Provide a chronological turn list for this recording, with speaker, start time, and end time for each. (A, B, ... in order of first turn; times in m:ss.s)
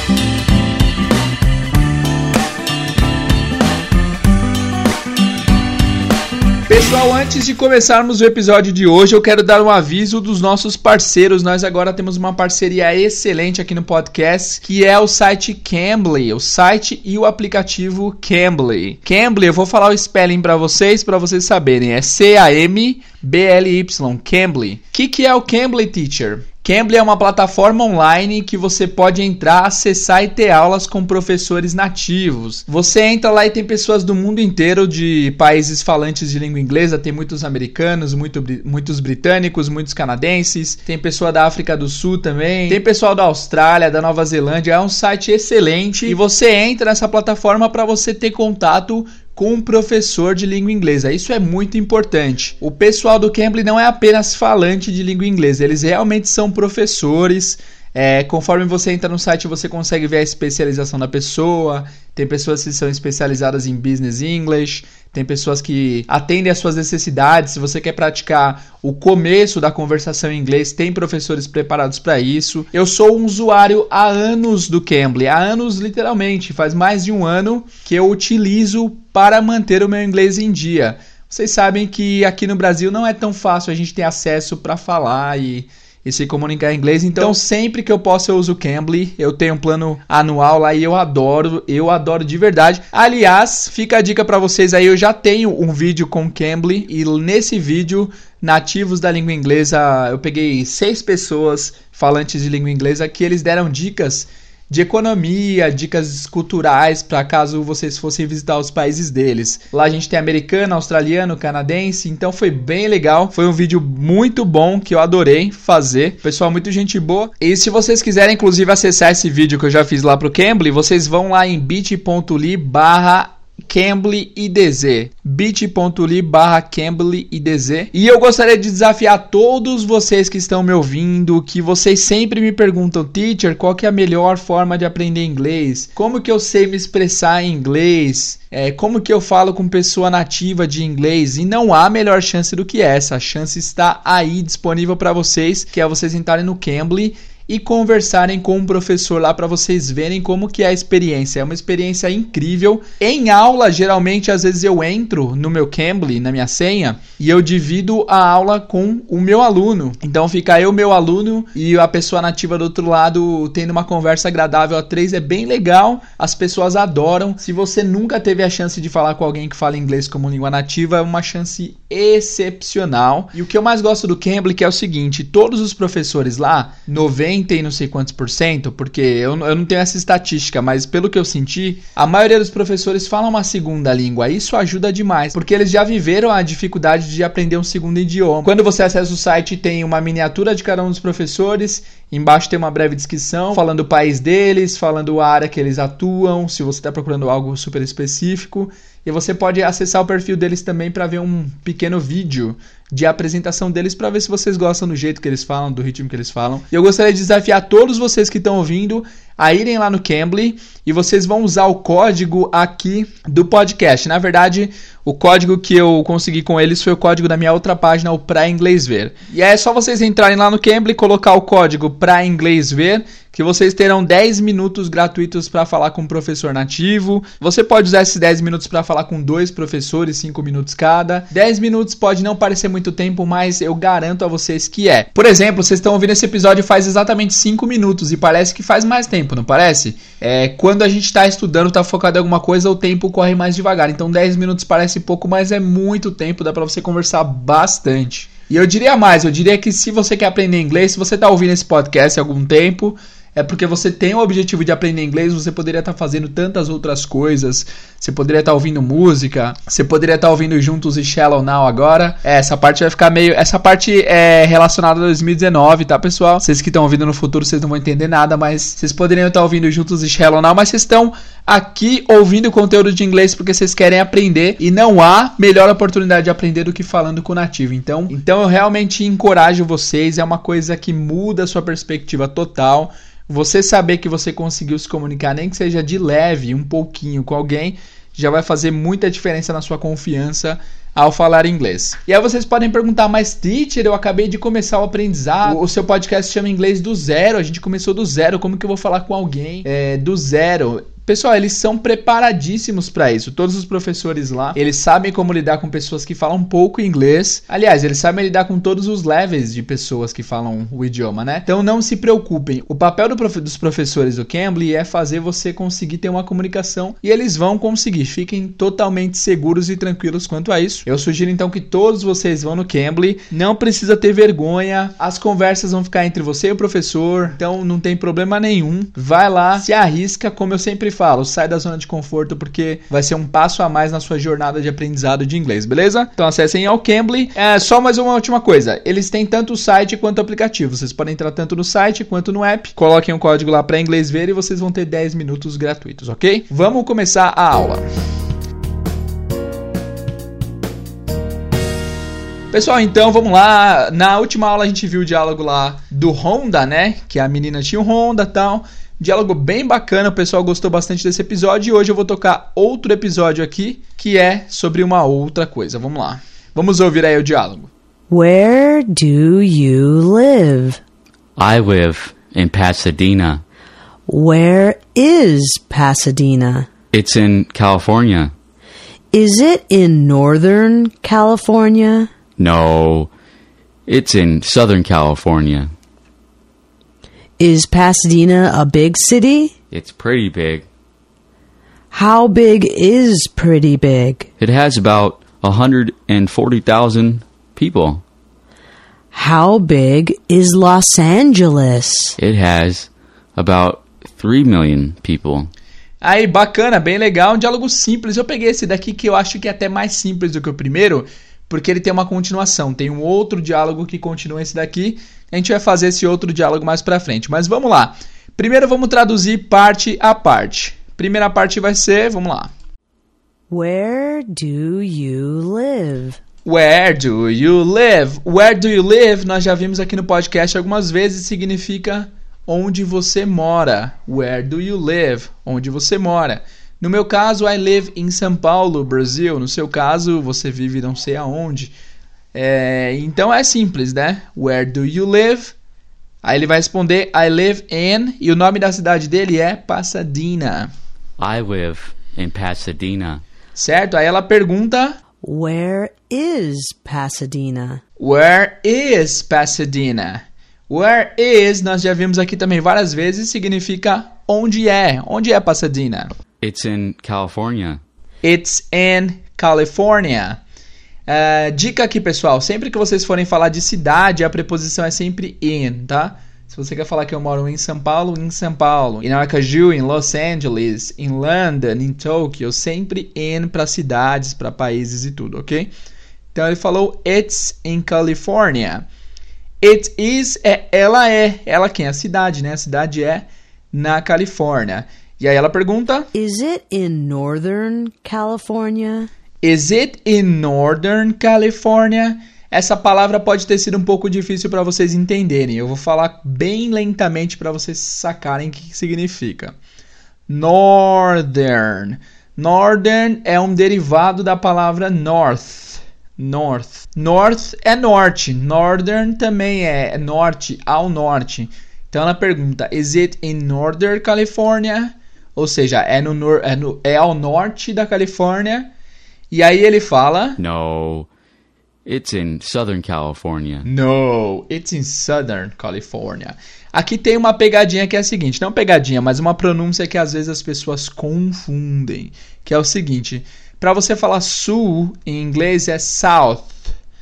0:06.7-5:47.8 A
5:52.5-6:07.7 A
6:08.1-6:10.8 B
6:11.4-6:13.4 C
6:14.1-6:16.7 B
6:16.9-6:18.3 C
6:19.1-6:22.1 B
6:22.4-6:23.1 C
6:23.9-6:25.7 C
6:27.4-6:29.5 B
6:29.7-6:30.7 C
6:31.9-6:34.3 B
6:34.4-6:38.0 C
6:39.1-6:42.2 B
6:42.2-6:45.5 C
6:46.0-7:02.5 A
7:03.5-7:06.2 B
7:06.4-7:21.7 A
7:22.3-7:25.6 A
7:26.2-7:30.7 A
7:31.2-7:33.2 C
7:33.5-7:35.0 A
7:35.2-7:37.8 B
7:38.0-7:46.1 A
7:46.4-7:47.8 C
7:48.2-7:50.4 A
7:51.1-8:05.7 A
8:06.3-8:08.8 A
8:09.6-8:16.1 A
8:16.1-8:19.1 B
8:19.4-8:29.6 A
8:30.3-8:48.7 A
8:49.3-8:50.4 A
8:50.4-8:51.1 C
8:51.8-8:53.7 C
8:53.6-9:06.7 A